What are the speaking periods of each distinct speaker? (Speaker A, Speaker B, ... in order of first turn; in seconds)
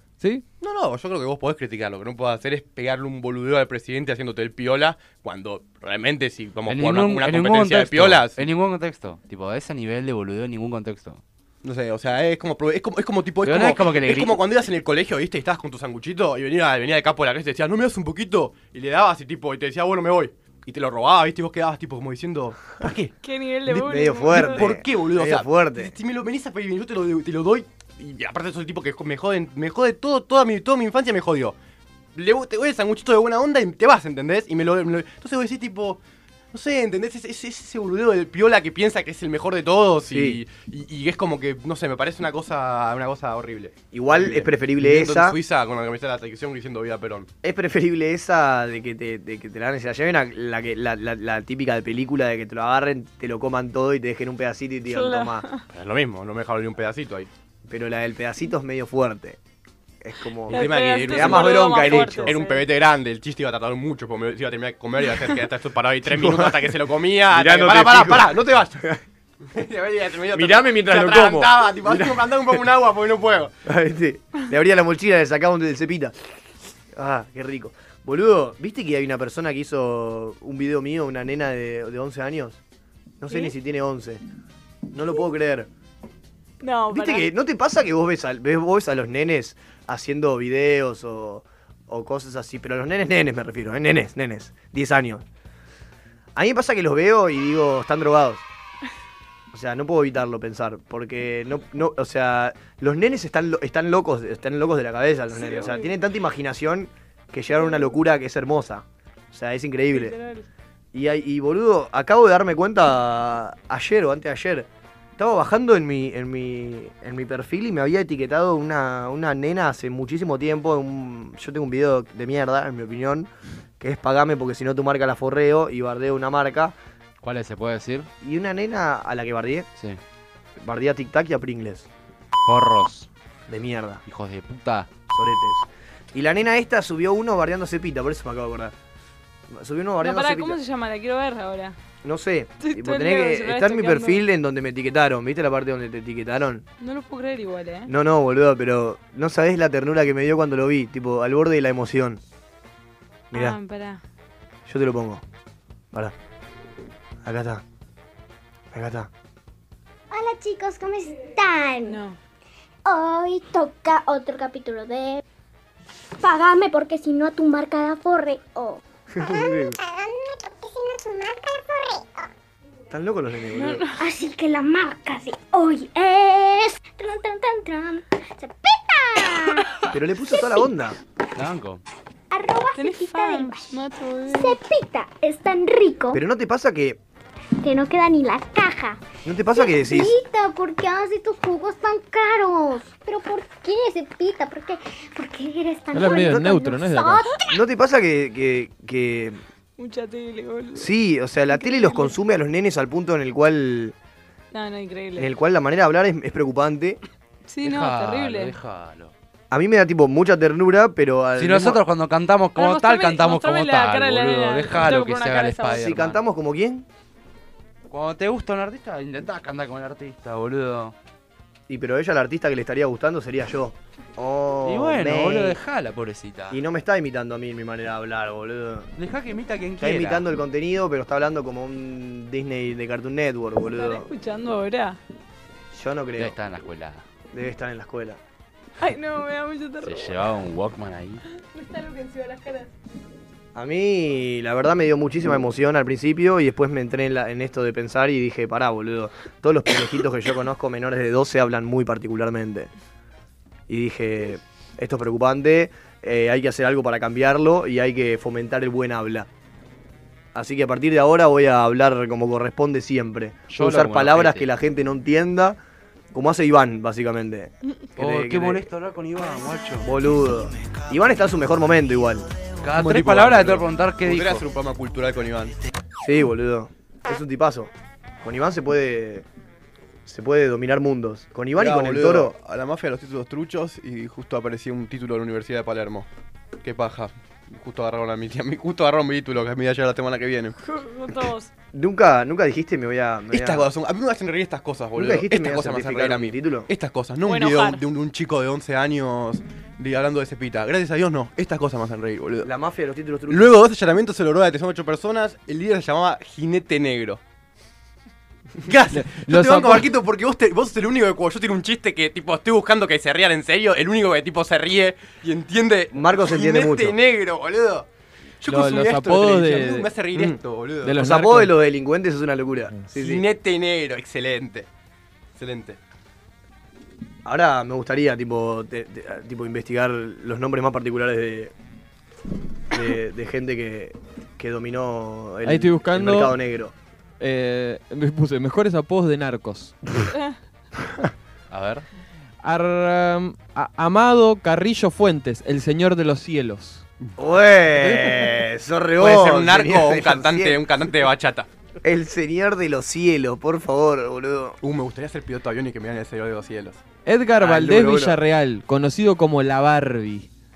Speaker A: 0.6-8.4, 11.6-23.1, 24.3-31.6, 32.1-47.3, 55.7-57.3, 60.5-68.8, 69.4-73.5, 272.8-275.6, 281.6-286.1, 286.6-290.6, 293.3-302.5, 303.3-307.2, 308.6-317.9, 318.4-321.0, 322.9-324.7, 325.4-325.8, 349.0-351.5, 354.6-356.8
Speaker B: 6.7-11.2, 13.4-14.4, 127.2-128.1, 132.4-133.1, 134.1-134.9, 181.3-181.8, 207.6-209.1, 211.4-216.2, 217.9-220.9, 224.7-226.6, 229.0-230.3, 236.2-237.0, 239.8-241.2, 263.5-264.5, 268.0-269.9, 272.6-274.5, 341.5-341.9
Speaker C: 23.2-24.6, 54.9-55.6, 60.5-62.6, 83.3-83.5, 86.6-87.3, 105.3-105.9, 107.6-107.9, 109.9-110.5, 140.0-141.8, 142.6-144.2, 146.8-147.9, 153.3-154.0, 161.9-162.2, 173.5-174.0, 182.8-184.6, 199.8-200.9, 201.5-202.1, 204.5-205.3, 207.5-208.5, 212.6-215.8, 233.7-235.0, 238.8-240.2, 241.3-242.7, 290.6-291.5, 297.2-297.8
Speaker D: 23.7-25.9, 40.0-40.4, 43.9-45.4, 47.4-55.5, 57.7-59.4, 60.0-62.4, 66.1-66.7, 67.3-69.0, 70.3-72.6, 73.7-76.2, 76.9-82.6, 83.2-84.2, 84.9-85.7, 86.9-95.2, 96.4-98.5, 99.5-110.2, 110.9-126.8, 128.2-129.7, 130.6-131.9, 133.5-134.0, 135.1-138.8, 139.5-140.6, 142.0-146.6, 147.9-152.2, 153.3-153.6, 154.7-155.2, 157.2-157.6, 158.7-159.1, 169.2-169.8, 172.9-173.8, 179.9-181.0, 186.1-187.0, 189.2-190.2, 197.5-199.4, 200.8-203.9, 205.2-207.0, 209.5-211.8, 215.7-216.9, 221.7-225.6, 226.5-228.9, 229.8-234.1, 235.7-236.4, 237.3-238.2, 243.6-252.7, 253.7-259.3, 260.3-265.6, 266.1-268.7, 269.8-272.3, 276.0-279.3, 280.1-282.3, 291.7-293.7, 294.9-296.7, 302.4-303.5, 315.9-317.0, 320.1-320.4, 321.0-323.2, 327.2-331.5, 332.7-336.7, 347.2-350.6, 351.8-354.6, 357.4-358.2
Speaker E: 160.1-162.0, 162.8-165.2, 166.2-172.2, 174.0-180.7, 182.3-186.2, 187.6-197.4
Speaker F: 195.9-197.2, 308.9-309.9, 318.4-319.9, 320.8-321.5, 335.4-336.4, 337.2-339.8, 342.4-346.8, 357.1-360.3